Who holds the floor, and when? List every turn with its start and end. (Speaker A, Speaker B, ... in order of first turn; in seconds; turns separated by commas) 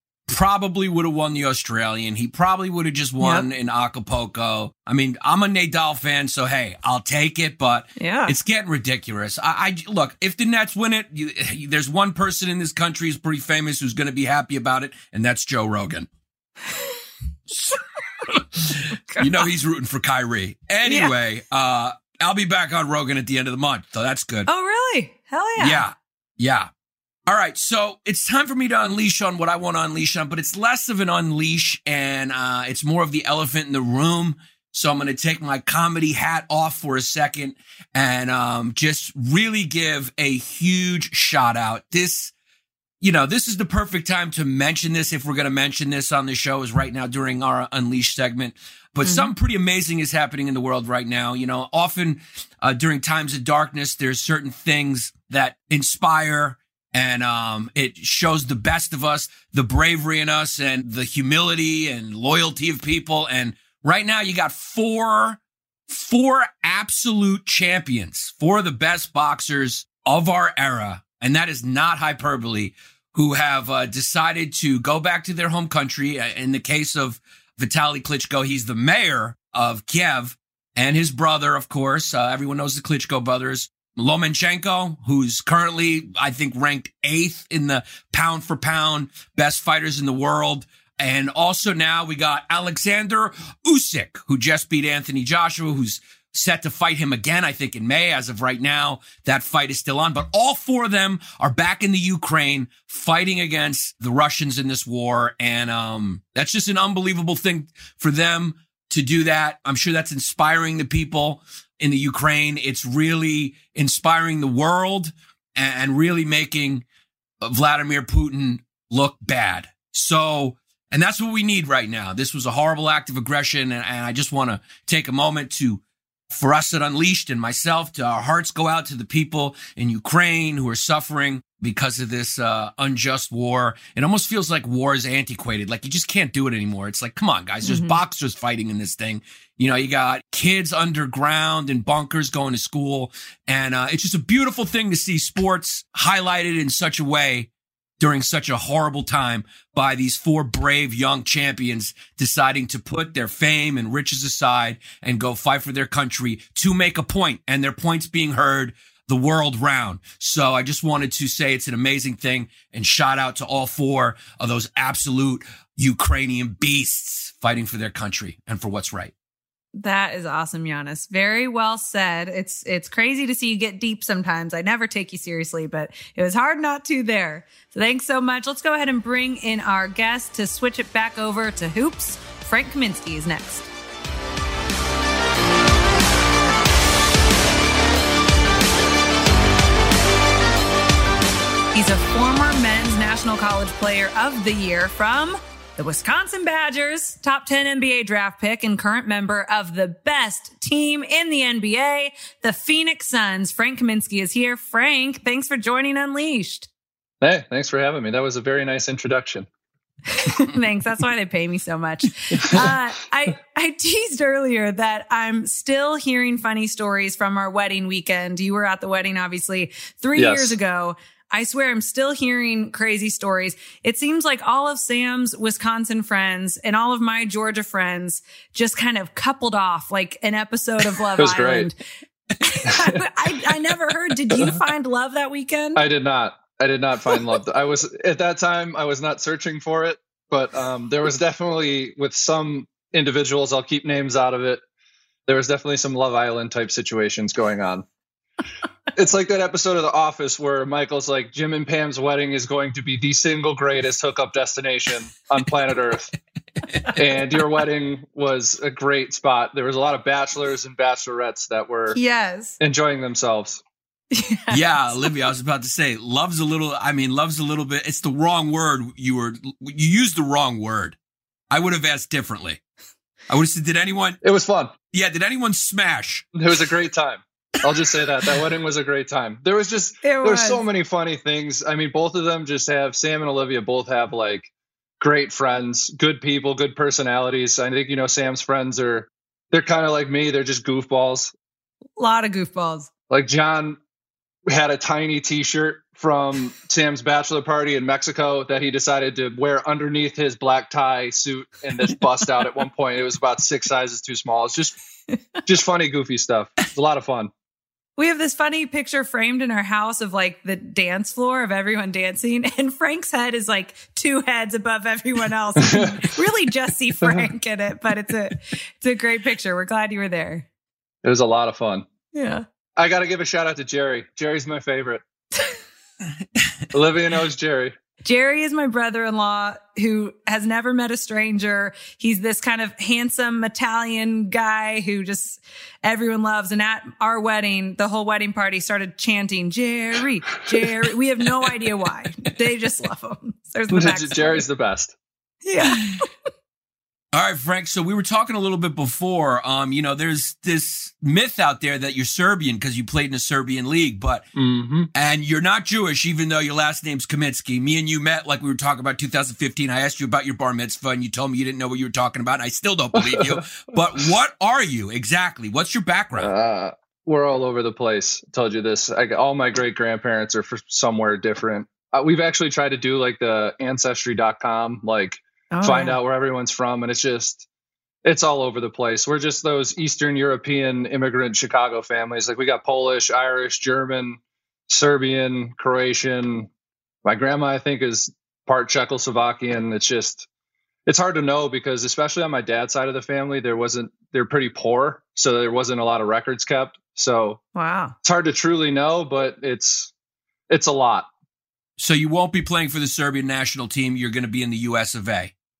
Speaker A: 0.3-16.1, Speaker B: 3.2-3.5, Speaker B: 8.0-8.3, Speaker A: 18.3-24.5, Speaker B: 19.1-19.4, Speaker B: 20.8-21.1, Speaker B: 24.4-25.9, Speaker A: 25.6-26.7, Speaker A: 27.3-42.3, Speaker A: 43.0-116.8, Speaker B: 49.0-49.3, Speaker A: 117.4-147.5, Speaker B: 137.6-138.0, Speaker A: 148.0-169.1, Speaker B: 169.8-183.7, Speaker B: 191.7-206.7, Speaker C: 207.2-209.5, Speaker B: 210.1-231.8, Speaker C: 212.4-212.7, Speaker C: 220.2-220.5, Speaker C: 231.2-231.7, Speaker B: 232.4-235.8, Speaker C: 232.7-233.0, Speaker C: 235.8-244.6, Speaker C: 245.3-247.8, Speaker C: 248.9-256.1, Speaker A: 256.7-257.0, Speaker C: 256.9-262.0, Speaker B: 261.9-262.6, Speaker C: 262.6-263.6, Speaker B: 264.1-265.1, Speaker A: 264.5-271.0, Speaker A: 271.5-272.6, Speaker A: 273.3-274.2, Speaker C: 274.2-274.7, Speaker A: 274.9-276.2, Speaker C: 276.3-284.5, Speaker B: 280.0-280.6, Speaker C: 285.0-291.3, Speaker B: 292.0-292.9, Speaker C: 293.1-293.8, Speaker C: 294.5-304.8, Speaker C: 305.4-307.3, Speaker B: 308.0-320.4, Speaker C: 315.6-316.1, Speaker C: 321.0-321.9, Speaker B: 322.1-322.4, Speaker C: 322.8-325.0, Speaker C: 326.7-327.7, Speaker B: 328.0-344.4, Speaker C: 343.7-344.9, Speaker B: 345.4-346.1, Speaker A: 347.1-354.2, Speaker C: 354.3-354.9, Speaker A: 354.9-366.3, Speaker C: 362.9-363.4, Speaker C: 366.2-377.4, Speaker B: 375.5-376.0, Speaker C: 378.0-386.5, Speaker C: 387.0-390.2, Speaker C: 390.9-397.4, Speaker B: 397.6-397.9, Speaker C: 398.0-399.9, Speaker C: 400.5-401.1, Speaker A: 401.8-405.3